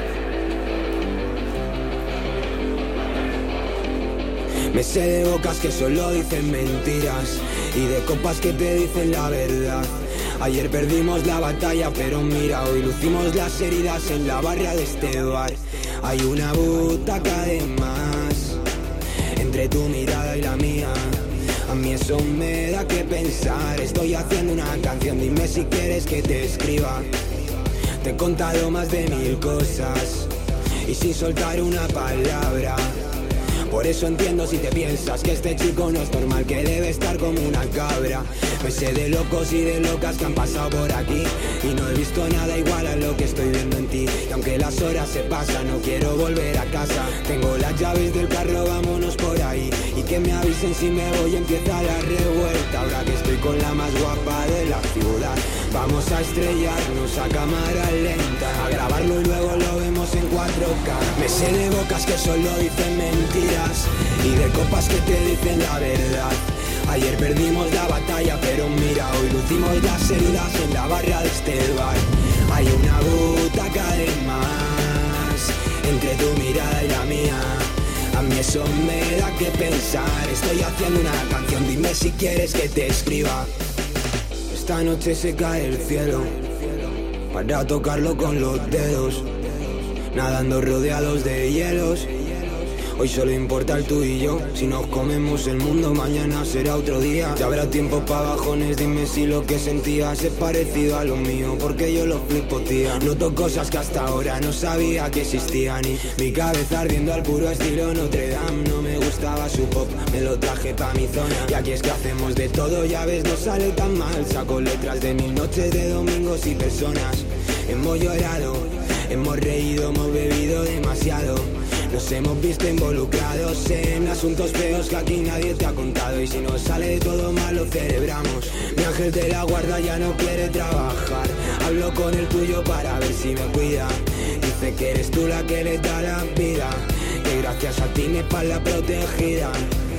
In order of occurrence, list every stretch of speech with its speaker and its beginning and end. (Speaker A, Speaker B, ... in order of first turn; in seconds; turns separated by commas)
Speaker A: 4.7-18.6, Speaker A: 19.3-27.1, Speaker A: 28.0-30.3, Speaker A: 30.8-33.1, Speaker A: 33.7-83.5, Speaker A: 84.5-139.7